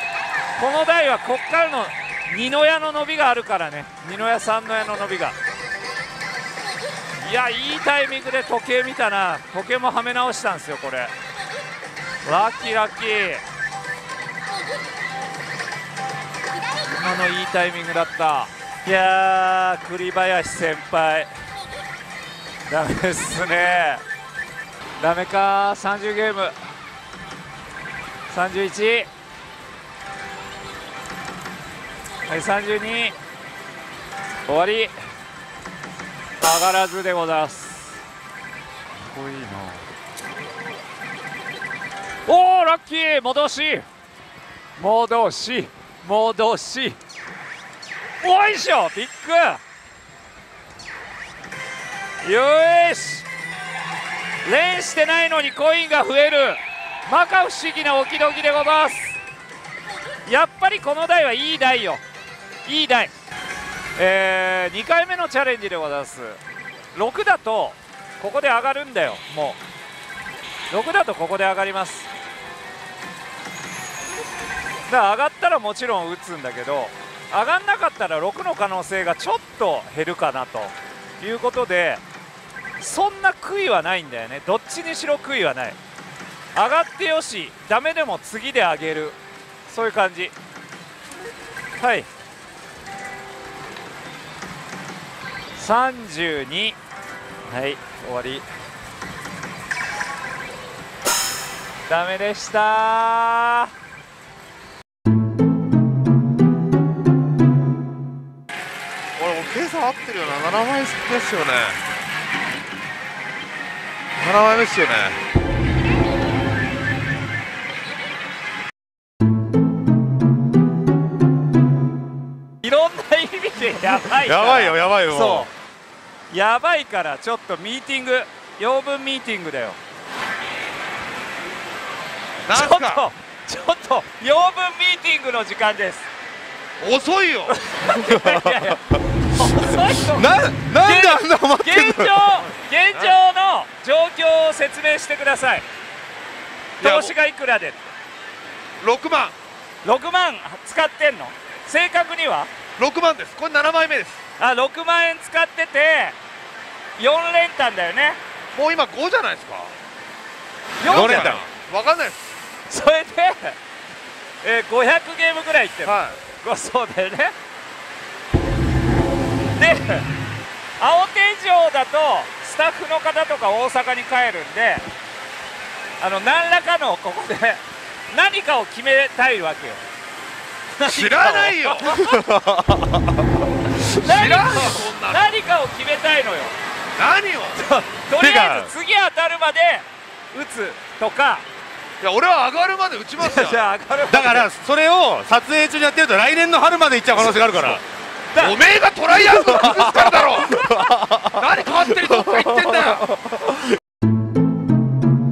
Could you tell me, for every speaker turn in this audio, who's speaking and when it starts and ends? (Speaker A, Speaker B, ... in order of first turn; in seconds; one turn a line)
Speaker A: 0.6-5.3
Speaker A: 7.2-11.1
Speaker A: 12.2-13.4
Speaker A: 16.8-21.3
Speaker A: 22.7-24.0
Speaker A: 25.0-26.5
Speaker A: 28.3-29.1
Speaker A: 32.3-33.1
Speaker A: 34.5-34.9
Speaker A: 36.4-38.0
Speaker A: 39.1-39.8
Speaker A: 42.2-43.9
Speaker A: 44.8-47.0
Speaker A: 48.2-49.6
Speaker A: 52.2-53.2
Speaker A: 54.4-59.2
Speaker A: 60.2-62.0
Speaker A: 62.6-63.1
Speaker A: 64.0-66.4
Speaker A: 66.9-69.6
Speaker A: 70.7-72.1
Speaker A: 74.9-82.0
Speaker A: 82.8-85.8
Speaker A: 86.5-90.3
Speaker A: 91.8-92.1
Speaker A: 95.5-96.8
Speaker A: 97.5-98.4
Speaker A: 101.9-103.7
Speaker B: 109.2-111.8
Speaker B: 114.2-115.2
Speaker A: 122.6-125.5
Speaker C: 124.2-125.5
Speaker A: 126.3-129.8
Speaker B: 132.4-133.1
Speaker A: 132.5-136.1
Speaker B: 136.8-137.6
Speaker A: 137.5-145.6
Speaker C: 138.0-142.2
Speaker B: 142.4-143.2
Speaker A: 146.8-147.8
Speaker B: 146.8-147.1
Speaker B: 148.8-149.3
Speaker A: 149.8-152.5
Speaker B: 152.8-154.2
Speaker A: 154.4-156.2
Speaker A: 157.0-158.2
Speaker B: 158.5-159.7
Speaker A: 160.8-161.4
Speaker B: 160.8-162.2
Speaker C: 160.9-161.4
Speaker A: 162.7-163.6
Speaker A: 164.4-167.3
Speaker B: 165.8-166.2
Speaker A: 169.6-170.1
Speaker A: 170.8-174.8
Speaker A: 176.0-179.8
Speaker A: 180.8-182.2
Speaker B: 180.8-182.1
Speaker C: 182.0-183.2
Speaker B: 183.8-185.2
Speaker A: 183.8-186.6
Speaker B: 187.0-187.6
Speaker A: 187.6-191.4
Speaker C: 188.1-188.7
Speaker B: 192.0-193.7
Speaker A: 193.2-194.5
Speaker C: 194.1-197.8
Speaker A: 198.3-198.6
Speaker B: 198.4-200.7
Speaker A: 199.3-200.9
Speaker C: 199.6-199.9
Speaker C: 200.6-201.4
Speaker B: 201.2-203.1
Speaker C: 202.2-202.8